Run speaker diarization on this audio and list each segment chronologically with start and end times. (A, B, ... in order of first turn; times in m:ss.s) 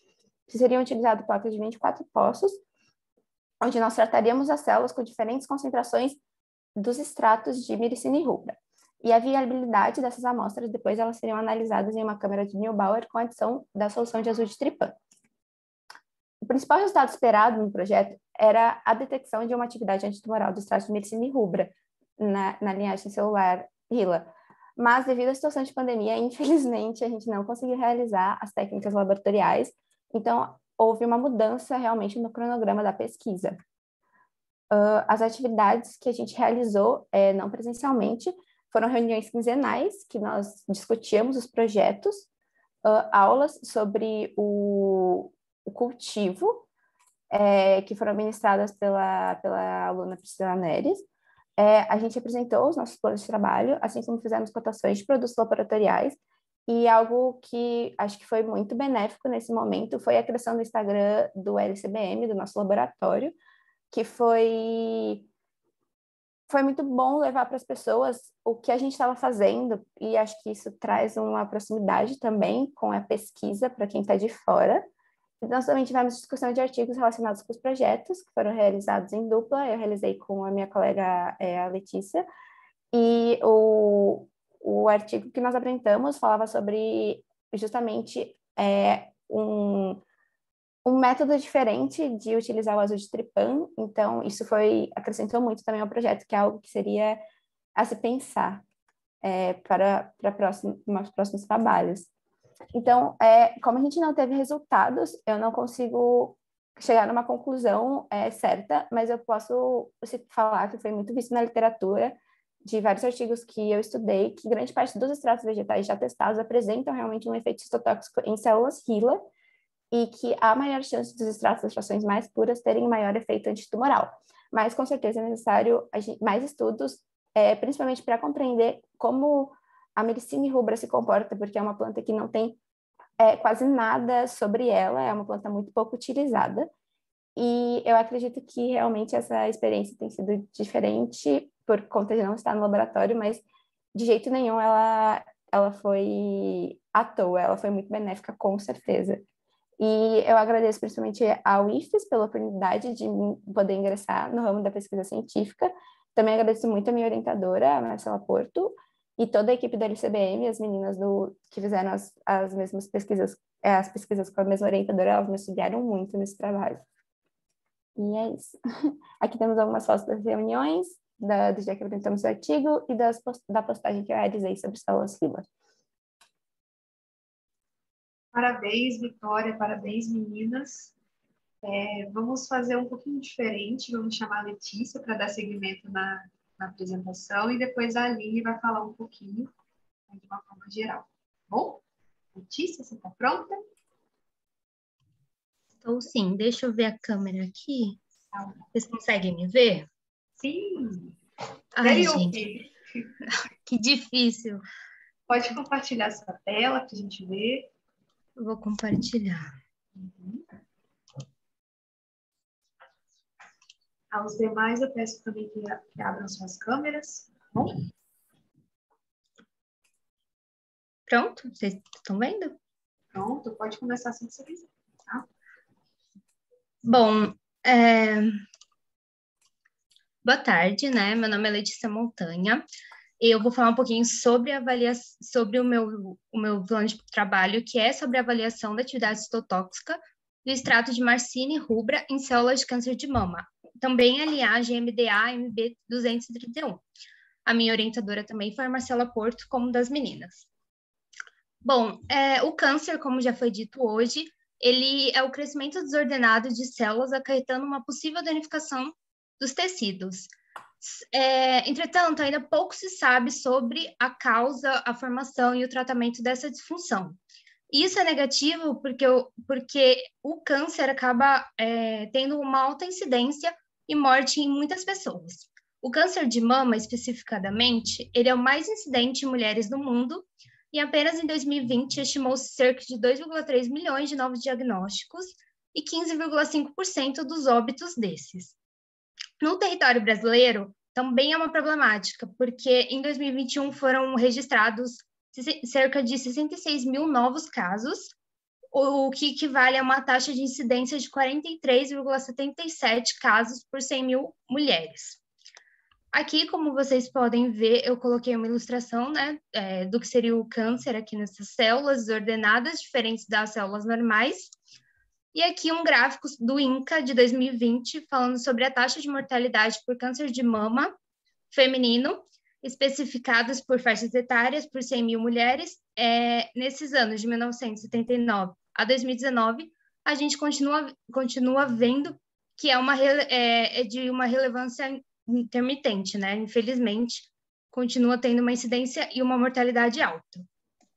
0:00.5-0:02.6 A
0:03.6-0:06.2 A
0:06.8-0:15.0 A
0:16.4-0:33.6 A
0:34.7-0:42.3 A
0:42.8-0:46.7 A
0:47.3-0:51.0 A
0:51.6-1:03.3 A
1:03.9-1:05.3 A
1:06.5-1:14.9 A
1:15.4-1:22.2 A
1:22.9-1:30.0 A
1:30.8-1:37.2 A
1:37.8-1:38.6 A
1:39.2-1:42.1 A
1:42.7-1:59.2 A
1:59.9-2:12.6 A
2:13.2-2:16.7 A
2:17.4-2:23.4 A
2:23.9-2:29.2 A
2:29.8-2:46.8 A
2:48.0-2:48.6 A
2:49.2-2:55.4 A
2:58.3-3:00.9 B
3:01.6-3:09.5 B
3:10.1-3:11.8 B
3:12.3-3:13.6 B
3:15.8-3:18.0 C
3:18.3-3:18.6 B
3:18.7-3:19.9 C
3:20.4-3:21.2 B
3:21.8-3:22.4 C
3:21.8-3:23.1 B
3:23.6-3:24.6 C
3:25.3-3:27.7 B
3:28.4-3:29.5 C
3:29.9-3:30.4 B
3:34.1-3:37.8 B
3:41.1-3:42.6 C
3:43.1-3:45.3 B
3:46.8-3:48.4 C
3:50.2-3:52.6 C
3:53.2-4:06.8 C
4:07.4-4:10.5 C
4:11.6-4:27.2 C
4:27.7-4:48.5 C
4:49.4-4:58.1 C
4:58.7-5:05.2 C
5:06.1-5:14.5 C
5:15.3-5:20.9 C
5:21.5-5:40.4 C